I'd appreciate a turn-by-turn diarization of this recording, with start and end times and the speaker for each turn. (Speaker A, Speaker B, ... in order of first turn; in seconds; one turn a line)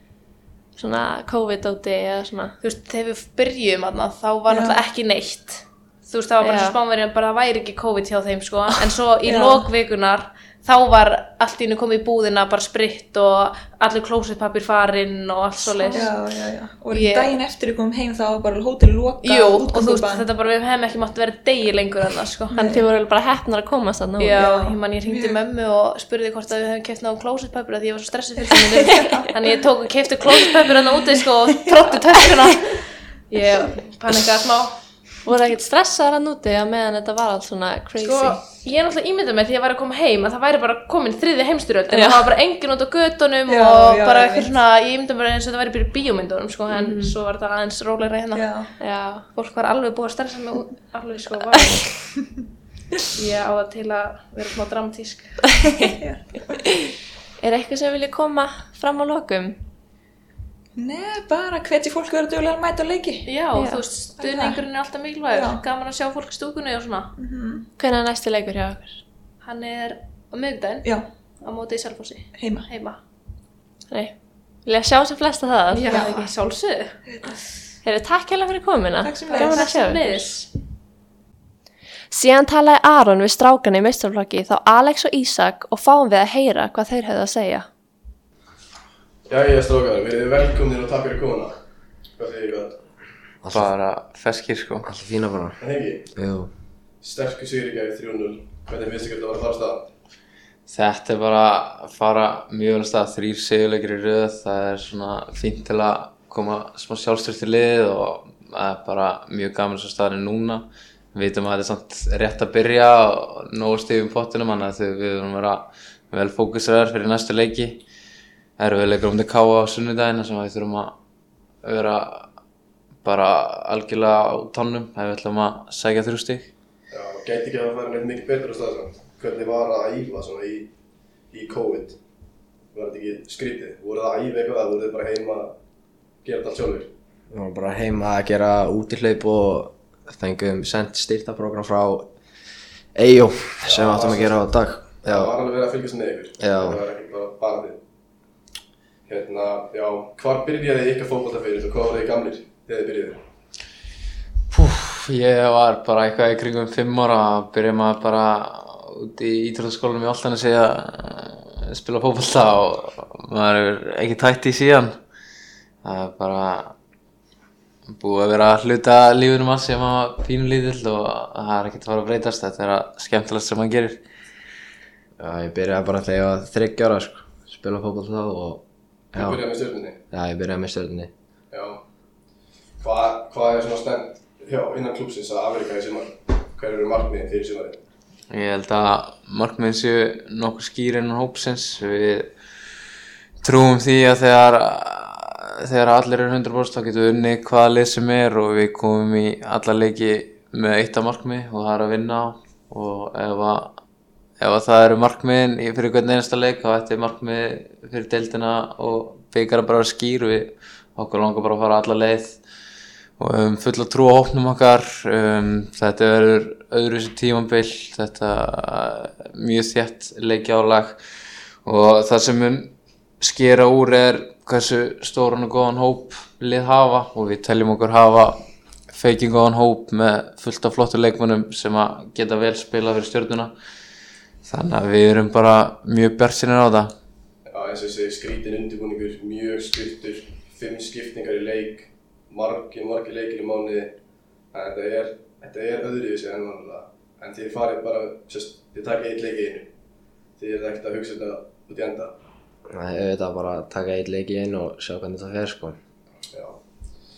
Speaker A: 0.8-2.6
Speaker B: 2.6-16.1
Speaker C: 4.5-4.8
Speaker A: 6.4-6.8
Speaker C: 9.2-9.7
Speaker C: 15.6-20.3
Speaker B: 16.9-17.3
Speaker B: 19.2-22.5
Speaker C: 22.5-22.9
Speaker A: 22.5-24.6
Speaker B: 24.2-34.8
Speaker C: 24.4-25.4
Speaker C: 28.5-29.3
Speaker A: 35.2-38.4
Speaker B: 38.0-51.9
Speaker A: 41.9-42.3
Speaker C: 43.5-44.5
Speaker A: 46.7-47.1
Speaker C: 48.3-48.7
Speaker A: 48.8-49.3
Speaker B: 53.1-55.4
Speaker C: 55.8-56.6
Speaker A: 57.4-59.6
Speaker C: 60.8-63.3
Speaker B: 63.3-67.1
Speaker A: 63.5-63.8
Speaker C: 64.2-64.6
Speaker C: 65.3-65.6
Speaker C: 67.2-67.7
Speaker A: 67.8-69.0
Speaker B: 69.4-73.0
Speaker C: 72.3-72.7
Speaker A: 74.7-76.1
Speaker B: 75.7-77.0
Speaker C: 75.9-76.3
Speaker C: 77.1-77.4
Speaker A: 77.8-80.1
Speaker C: 79.0-80.2
Speaker B: 79.3-80.5
Speaker A: 82.1-87.7
Speaker D: 89.3-91.6
Speaker D: 92.2-92.8
Speaker E: 93.4-93.7
Speaker F: 93.5-94.9
Speaker E: 94.8-95.6
Speaker D: 95.6-96.1
Speaker E: 96.1-96.5
Speaker D: 97.0-99.9
Speaker F: 100.7-117.8
Speaker F: 118.6-121.0
Speaker F: 121.6-122.3
Speaker F: 123.0-126.5
Speaker D: 126.9-130.7
Speaker D: 131.3-132.0
Speaker D: 132.7-135.6
Speaker D: 136.2-136.9
Speaker E: 137.3-142.1
Speaker E: 142.9-145.3
Speaker D: 143.6-144.4
Speaker D: 145.0-147.8
Speaker E: 146.4-146.8
Speaker D: 149.1-153.2
Speaker F: 154.5-165.0
Speaker F: 165.8-166.8
Speaker F: 167.9-174.0
Speaker E: 175.2-178.6
Speaker D: 179.1-180.0
Speaker E: 179.1-179.4
Speaker E: 180.1-181.1
Speaker D: 181.5-181.8
Speaker D: 182.8-187.8
Speaker F: 188.3-192.3
Speaker F: 193.4-203.8
Speaker F: 204.4-212.4
Speaker F: 213.2-221.0
Speaker F: 221.6-233.5
Speaker F: 234.4-236.9
Speaker D: 237.5-244.0
Speaker D: 244.5-249.7
Speaker D: 250.3-252.1
Speaker E: 252.7-255.8
Speaker D: 256.3-256.6